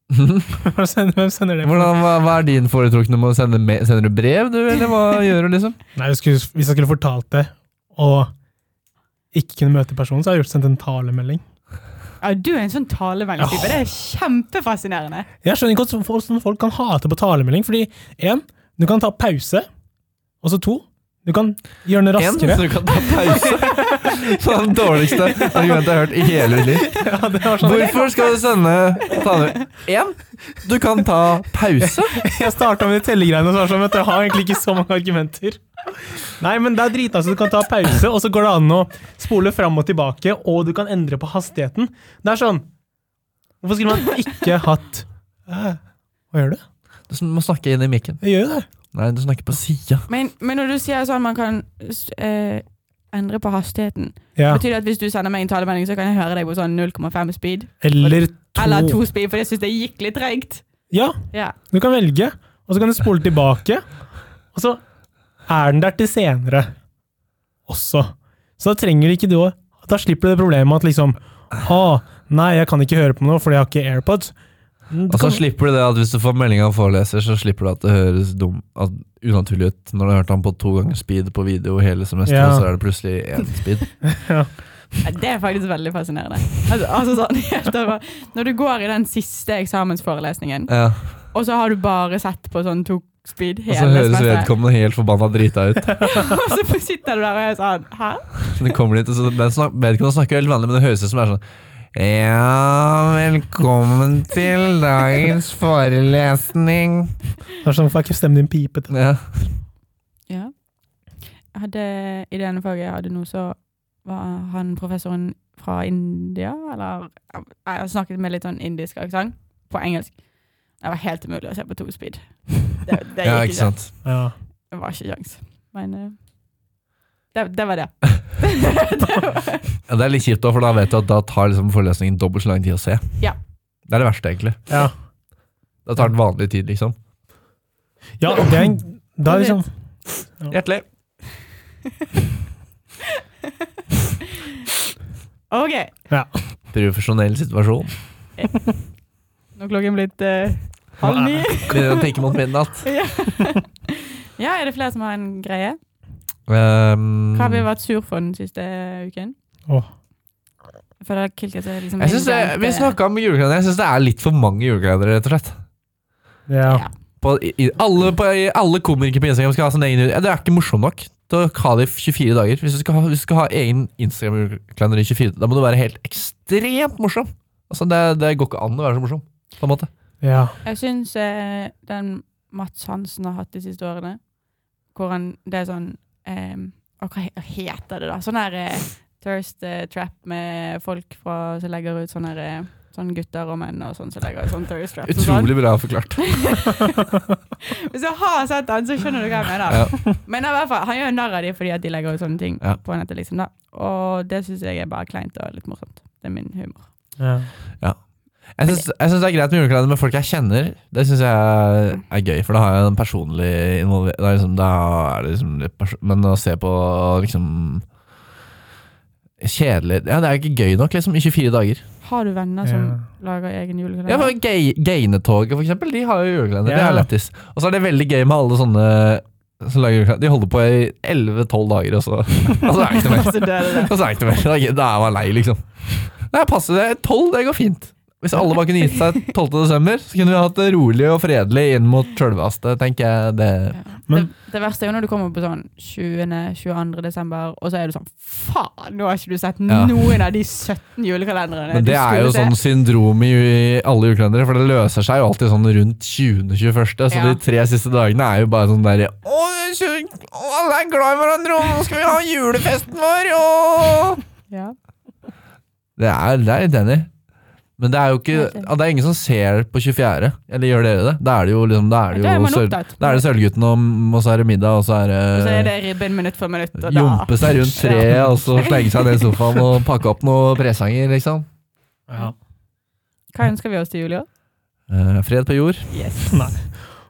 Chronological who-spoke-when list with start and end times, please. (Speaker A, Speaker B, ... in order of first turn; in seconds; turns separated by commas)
Speaker A: 0.1-0.5, Speaker B: 0.5-2.0, Speaker A: 1.6-5.8, Speaker B: 6.0-8.3, Speaker B: 9.3-11.4, Speaker C: 12.2-15.3, Speaker B: 13.4-13.8, Speaker B: 15.4-19.7, Speaker B: 20.4-22.8, Speaker A: 22.2-26.9, Speaker B: 23.3-24.1, Speaker B: 26.7-28.2, Speaker A: 27.6-32.2, Speaker B: 31.8-42.7, Speaker B: 43.6-45.8, Speaker B: 46.3-46.6, Speaker A: 47.1-48.2, Speaker B: 48.2-48.7, Speaker A: 48.9-50.0, Speaker C: 50.1-60.6, Speaker B: 54.4-54.6, Speaker B: 57.8-59.0, Speaker B: 60.9-64.8, Speaker C: 61.3-61.5, Speaker B: 65.5-66.7, Speaker B: 67.7-75.4, Speaker A: 75.1-83.9, Speaker B: 82.2-82.7, Speaker B: 84.0-84.5, Speaker C: 85.0-94.5, Speaker A: 90.7-91.2, Speaker A: 93.7-96.3, Speaker C: 96.0-98.5, Speaker A: 98.5-101.4, Speaker A: 101.9-107.1, Speaker B: 107.6-108.9, Speaker A: 108.9-109.5, Speaker C: 110.3-124.0, Speaker A: 123.2-123.9, Speaker B: 124.0-124.3, Speaker C: 124.7-126.2, Speaker C: 127.3-129.7, Speaker A: 129.9-133.2, Speaker A: 133.9-134.7, Speaker B: 134.7-134.9, Speaker A: 135.8-136.9, Speaker B: 138.2-139.7, Speaker C: 139.3-139.6, Speaker A: 140.5-140.8, Speaker C: 145.5-145.9, Speaker A: 146.7-148.0, Speaker C: 149.5-152.0, Speaker B: 151.0-151.6, Speaker A: 151.7-152.9, Speaker C: 152.8-155.8, Speaker A: 156.5-157.6, Speaker C: 157.3-159.3, Speaker C: 161.0-162.9, Speaker A: 162.0-165.6, Speaker B: 166.5-166.8, Speaker C: 166.6-166.9, Speaker A: 167.2-179.9, Speaker B: 180.2-180.6, Speaker C: 180.6-184.3, Speaker C: 184.9-197.0, Speaker A: 195.1-196.7, Speaker C: 197.9-206.9, Speaker A: 199.7-200.0, Speaker B: 207.2-207.5, Speaker A: 208.5-217.8, Speaker A: 219.4-221.8, Speaker C: 222.0-224.3, Speaker B: 222.6-223.0, Speaker A: 224.1-243.8, Speaker B: 226.6-227.1, Speaker C: 232.9-233.9, Speaker C: 243.7-252.6, Speaker A: 249.7-249.9, Speaker A: 251.7-264.2, Speaker C: 257.1-257.4, Speaker C: 264.5-264.7, Speaker A: 266.0-267.1, Speaker A: 267.8-275.7, Speaker C: 268.3-268.7, Speaker C: 272.1-273.2, Speaker C: 275.3-279.3, Speaker A: 276.8-281.4, Speaker B: 282.1-282.3, Speaker C: 283.3-284.3, Speaker A: 284.9-285.9, Speaker C: 285.9-286.4, Speaker B: 286.3-286.8